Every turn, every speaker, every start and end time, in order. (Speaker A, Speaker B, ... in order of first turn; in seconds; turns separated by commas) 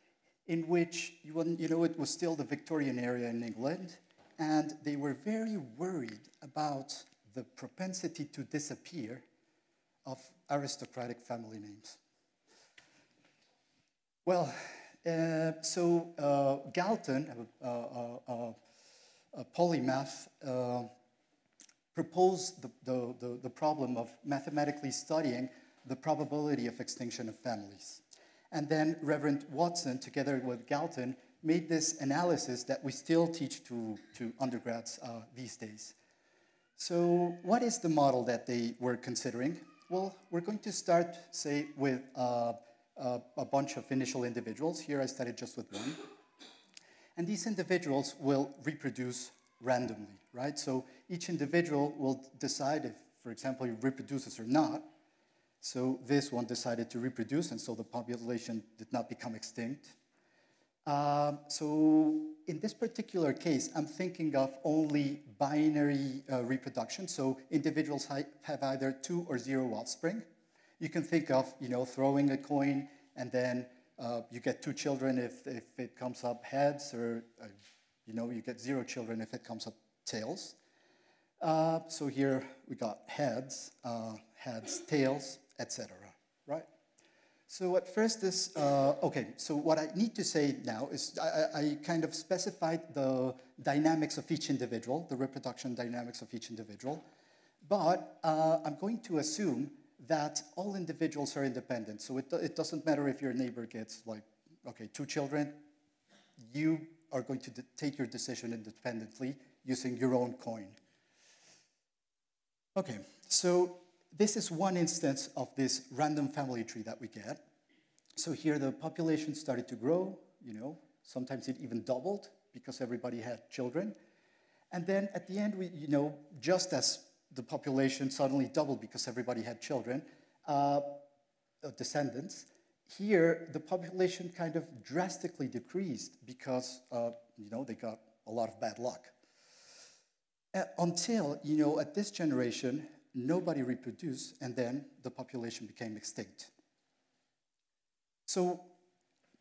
Speaker A: 0.5-9.2, Speaker A: 10.1-12.0, Speaker A: 14.3-18.6, Speaker A: 19.3-20.9, Speaker A: 21.9-36.0, Speaker A: 36.8-46.0, Speaker A: 47.2-54.9, Speaker A: 55.6-60.0, Speaker A: 60.9-70.2, Speaker A: 70.8-77.5, Speaker A: 78.1-80.6, Speaker A: 81.4-86.7, Speaker A: 87.5-97.0, Speaker A: 97.6-105.6, Speaker A: 106.4-110.8, Speaker A: 112.8-117.4, Speaker A: 118.2-124.0, Speaker A: 124.7-131.0, Speaker A: 131.6-139.1, Speaker A: 140.5-146.5, Speaker A: 148.3-148.7